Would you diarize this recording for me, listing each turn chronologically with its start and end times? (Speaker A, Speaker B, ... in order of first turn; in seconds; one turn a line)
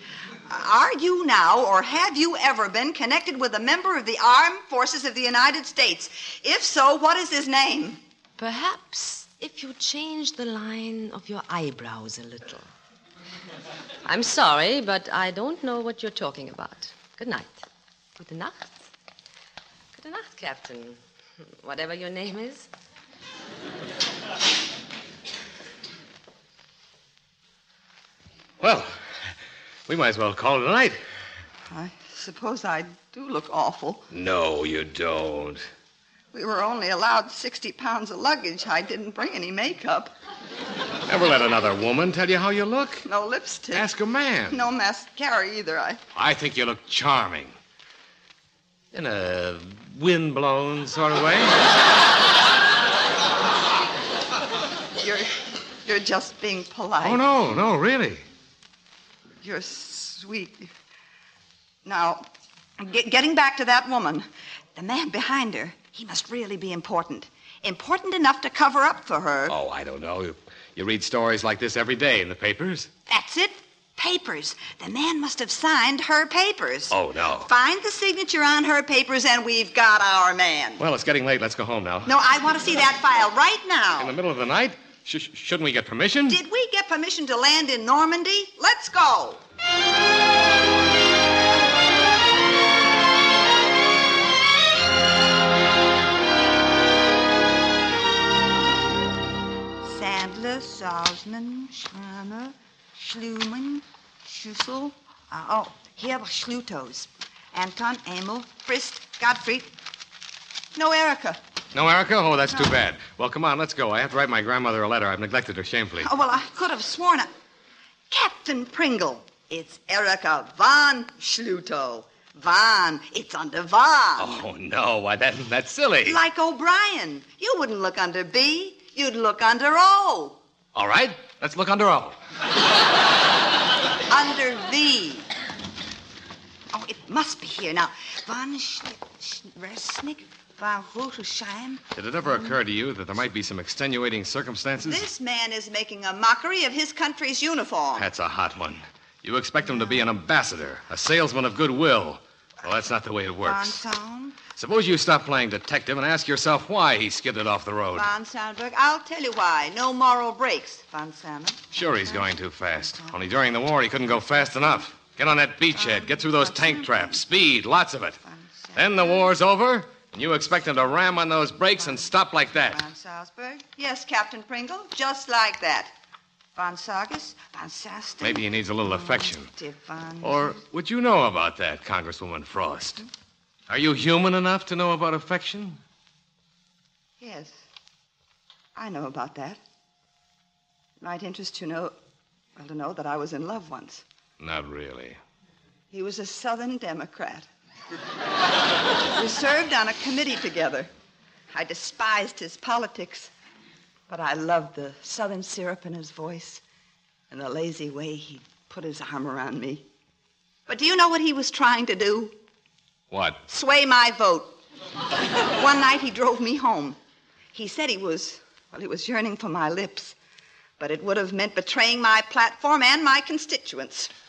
Speaker A: 0.5-8.0
Speaker B: 8.4-12.7
Speaker B: 14.1-17.6
Speaker B: 18.2-18.8
Speaker B: 19.9-21.0
Speaker B: 21.6-22.7
Speaker C: 28.6-28.9
Speaker C: 29.9-31.0
Speaker A: 31.7-34.1
Speaker C: 34.1-35.6
Speaker A: 36.3-40.1
Speaker C: 41.1-43.1
Speaker A: 43.1-43.9
Speaker C: 43.7-44.6
Speaker A: 44.5-46.0
Speaker C: 46.1-47.5
Speaker C: 48.9-51.7
Speaker A: 55.0-55.3
Speaker A: 55.8-57.2
Speaker C: 57.0-58.2
Speaker A: 59.4-60.7
Speaker A: 61.9-62.3
Speaker A: 62.8-69.5
Speaker C: 69.5-72.9
Speaker A: 73.1-80.8
Speaker C: 76.9-77.5
Speaker C: 80.8-82.1
Speaker A: 82.1-84.1
Speaker C: 84.0-86.4
Speaker A: 86.3-89.4
Speaker A: 99.8-109.7
Speaker A: 110.8-111.4
Speaker C: 111.7-116.1
Speaker A: 116.0-117.3
Speaker A: 118.1-124.4
Speaker C: 124.2-126.2
Speaker A: 126.0-130.4
Speaker C: 130.7-132.2
Speaker A: 134.1-135.3
Speaker A: 136.7-141.8
Speaker C: 141.9-145.1
Speaker A: 144.8-148.1
Speaker C: 148.0-153.8
Speaker A: 153.4-154.4
Speaker C: 154.6-158.1
Speaker A: 157.9-163.2
Speaker C: 161.7-168.2
Speaker A: 165.8-167.2
Speaker A: 168.2-169.3
Speaker C: 168.8-172.8
Speaker A: 171.8-175.9
Speaker A: 176.5-180.6
Speaker C: 178.2-179.5
Speaker C: 180.2-183.0
Speaker C: 183.7-185.8
Speaker A: 187.2-187.6
Speaker A: 188.8-189.6
Speaker A: 191.0-191.9
Speaker A: 192.6-194.0
Speaker C: 194.4-195.2
Speaker A: 195.9-197.5
Speaker A: 199.1-200.9
Speaker A: 201.5-203.3
Speaker A: 204.1-206.6
Speaker A: 207.3-209.8
Speaker A: 210.7-212.3
Speaker C: 213.1-213.4
Speaker A: 213.5-214.6
Speaker A: 215.4-217.0
Speaker A: 217.5-220.2
Speaker A: 220.8-224.1